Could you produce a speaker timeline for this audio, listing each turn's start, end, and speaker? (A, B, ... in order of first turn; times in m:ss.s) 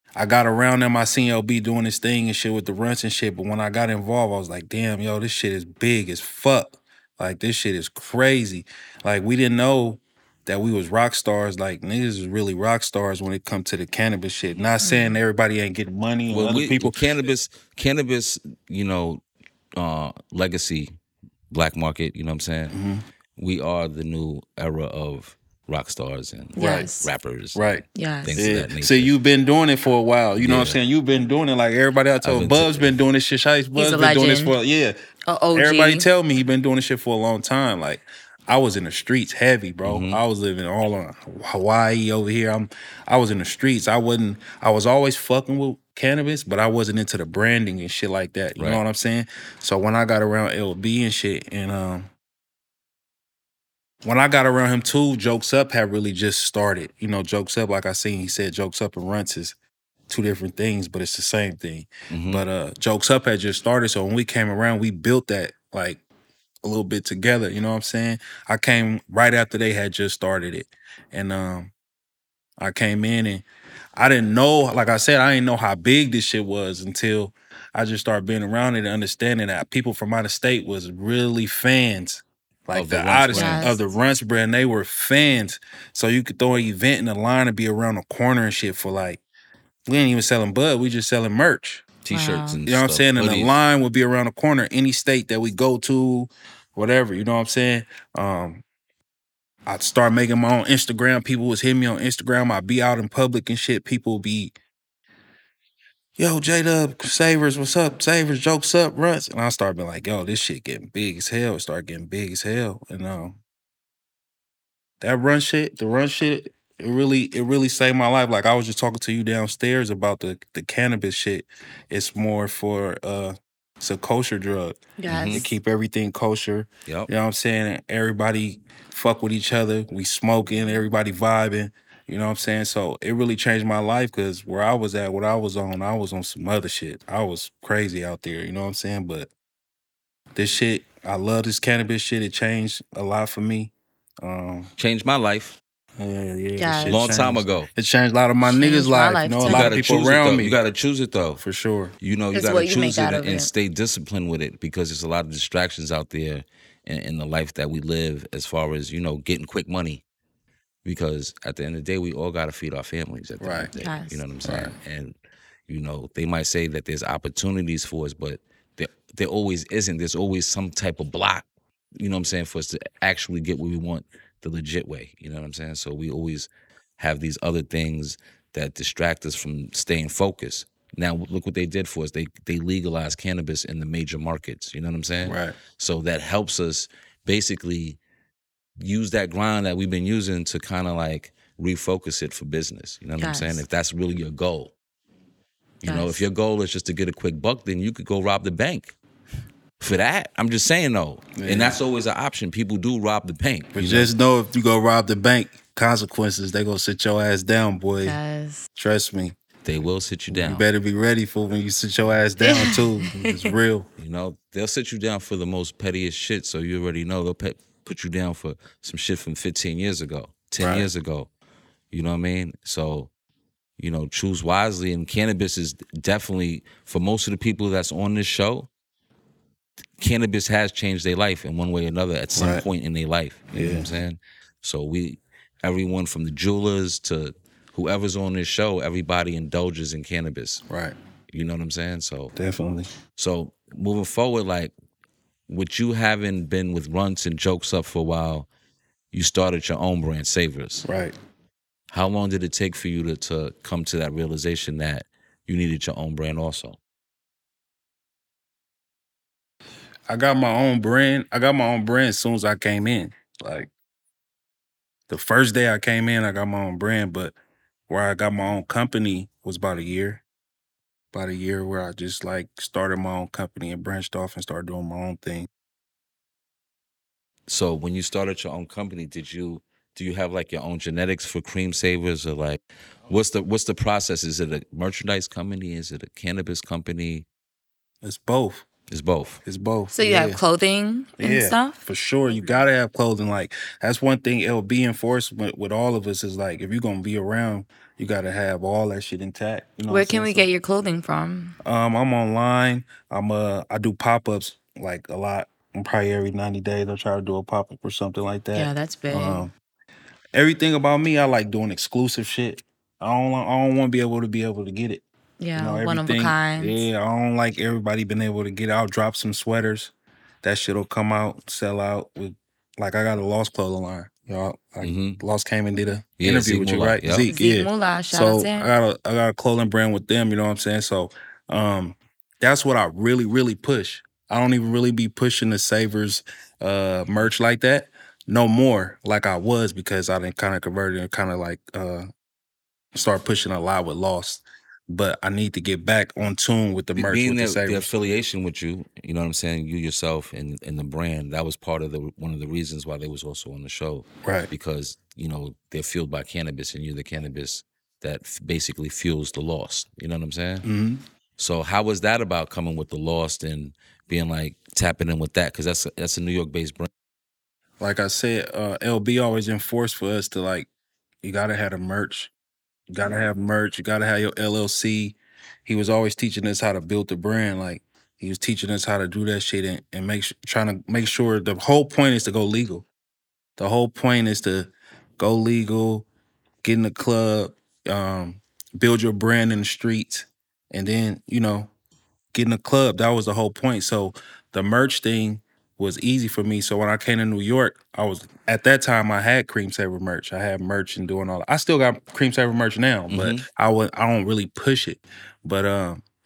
0:00.2-0:17.0 A
0:14.8-0:15.2 B
0:16.3-0:19.2 C
0:19.8-0:20.9 C
0:21.5-0:22.8 C
0:22.7-0:23.0 A
0:23.4-0:29.1 C
0:26.6-0:26.9 A
0:26.6-0:27.1 B
0:27.6-0:35.0 A
0:27.9-0:28.4 B
0:30.4-0:30.8 C
0:32.2-0:33.0 C
0:33.8-0:34.5 B
0:35.3-0:36.1 B
0:35.5-0:52.1 A
0:39.8-0:40.2 C
0:48.6-0:48.8 C
0:54.0-0:59.6 A
1:00.1-1:06.0 A
1:02.1-1:02.5 C
1:06.6-1:11.7 A
1:12.6-1:29.2 A
1:22.7-1:23.7 C
1:23.3-1:23.8 B
1:29.9-1:31.9 A
1:32.0-1:33.6 C
1:32.1-1:32.6 B
1:32.7-1:38.6 A
1:39.7-1:44.6 A
1:46.2-1:53.4 A
1:55.0-2:19.3 A
2:05.0-2:05.5 B
2:05.1-2:05.5 C
2:20.4-2:24.7 A
2:24.8-2:25.6 C
2:26.0-2:30.6 A
2:26.6-2:27.0 B
2:26.8-2:27.7 C
2:28.4-2:29.8 B
2:29.4-2:31.4 C
2:31.4-2:32.0 A
2:32.0-2:40.0 C
2:32.3-2:33.5 B
2:40.8-2:45.2 C
2:43.4-2:43.7 A
2:43.8-2:44.2 B
2:44.4-2:44.8 A
2:45.7-2:51.5 C
2:52.0-3:08.0 C
3:05.2-3:05.6 A
3:08.8-3:14.7 C
3:13.2-3:13.6 B
3:15.8-3:19.0 C
3:15.8-3:16.2 B
3:19.8-3:24.1 C
3:21.4-3:21.8 A
3:23.7-3:28.2 A
3:28.0-3:28.6 B
3:28.8-3:29.4 A
3:29.6-3:30.6 C
3:30.3-3:33.9 A
3:32.4-3:33.5 B
3:34.0-3:41.3 C
3:40.6-3:40.9 A
3:41.9-3:43.1 C
3:43.8-3:48.7 C
3:50.0-4:00.6 C
3:52.3-3:52.7 A
3:53.5-3:53.9 A
4:00.7-4:01.0 A
4:01.3-4:02.3 C
4:02.4-4:02.9 A
4:03.2-4:04.7 C
4:05.5-4:08.5 C
4:09.1-4:10.9 C
4:10.8-4:11.2 A
4:11.9-4:16.8 C
4:20.1-4:23.7 A
4:25.1-4:27.3 A
4:27.9-4:30.2 A
4:31.1-4:35.5 A
4:37.5-4:47.3 C
4:48.0-4:48.7 A
4:48.9-4:49.4 C
4:49.4-4:50.4 A
4:49.9-4:51.8 B
4:51.2-5:00.5 A
4:59.9-5:01.6 B
5:01.6-5:09.5 A
5:08.5-5:09.5 B
5:10.3-5:15.0 A
5:15.4-5:16.8 B
5:15.6-5:42.1 A
5:24.8-5:25.2 C
5:26.2-5:27.3 C
5:27.3-5:28.7 B
5:43.0-5:47.9 A
5:47.0-6:00.7 C
5:54.2-5:54.5 A
6:00.6-6:01.0 A
6:01.4-6:06.9 C
6:07.8-6:10.7 A
6:11.2-6:12.3 A
6:12.9-6:22.9 A
6:23.6-6:26.1 A
6:26.6-6:31.7 A
6:32.3-6:46.0 A
6:43.1-6:43.4 C